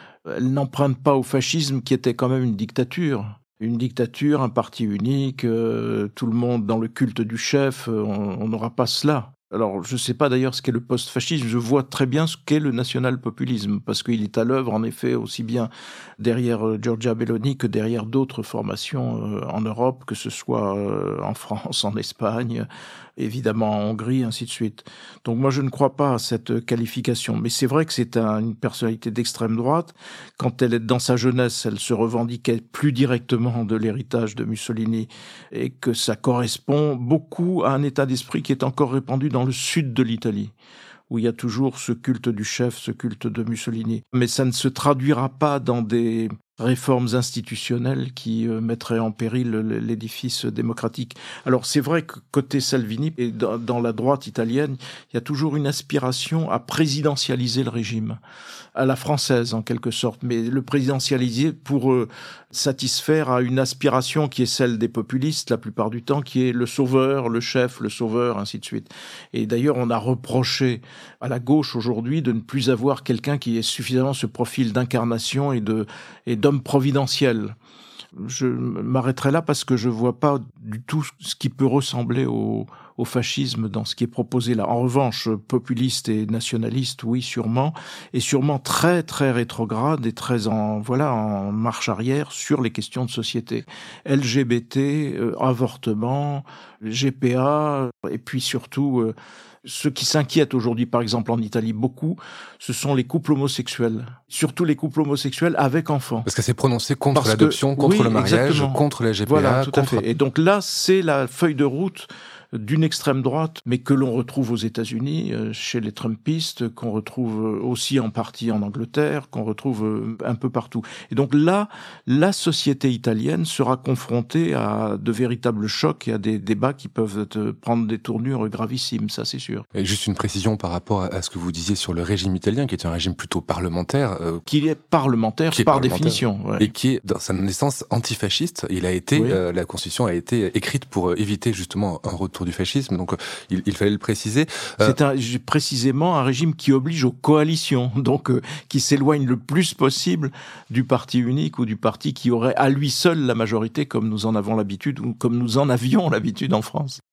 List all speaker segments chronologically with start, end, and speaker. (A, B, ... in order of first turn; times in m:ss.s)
0:00.3-0:22.7 A
0:23.2-0:40.5 A
0:41.1-0:58.2 A
0:58.8-1:17.6 A
1:18.2-1:46.3 A
1:46.3-1:50.1 B
1:47.1-2:09.6 A
2:09.7-2:14.4 B
2:14.5-2:16.7 A
2:15.5-2:25.0 B
2:19.2-2:19.4 A
2:24.8-2:37.0 A